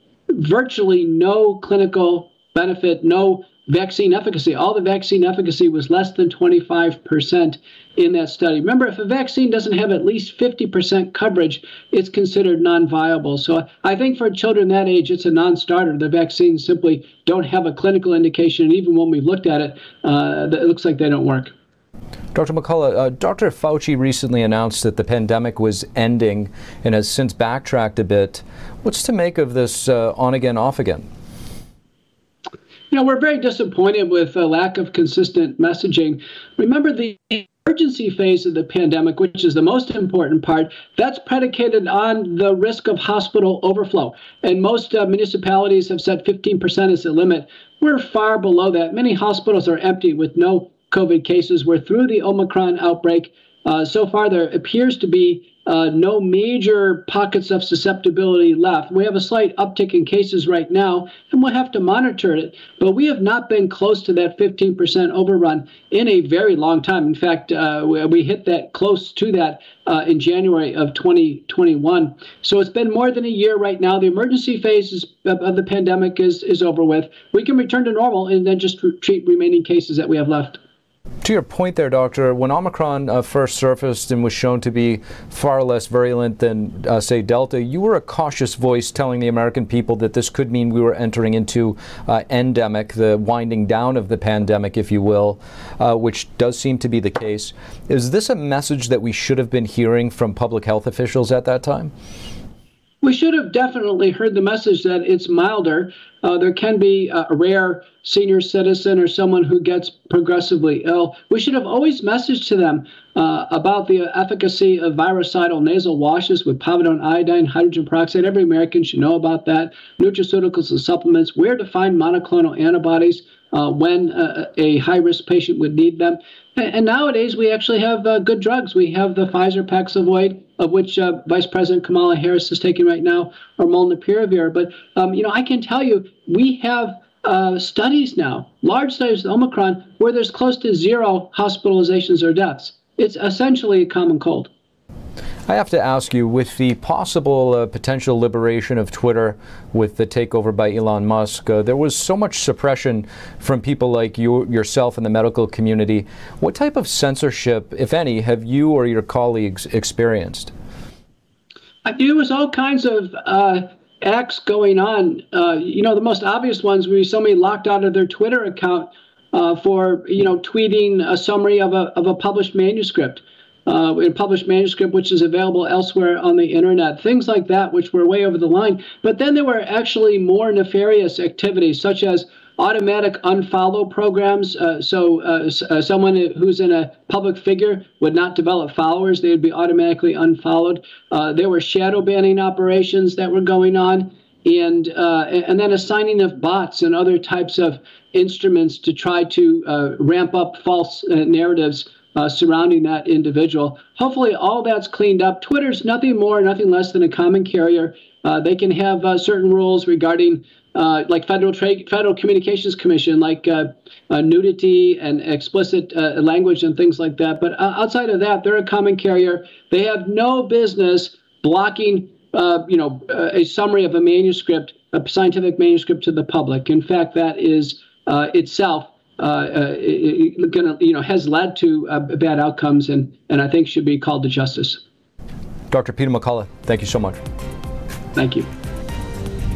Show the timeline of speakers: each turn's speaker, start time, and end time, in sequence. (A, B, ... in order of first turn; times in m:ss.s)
0:00.3-0:21.5 A
0:22.3-0:31.0 B
0:32.9-1:20.6 A
1:21.2-1:41.9 B
1:43.0-2:24.5 A
2:25.5-2:40.5 B
2:41.8-3:54.8 A
3:55.7-3:57.2 B
3:58.2-3:58.5 A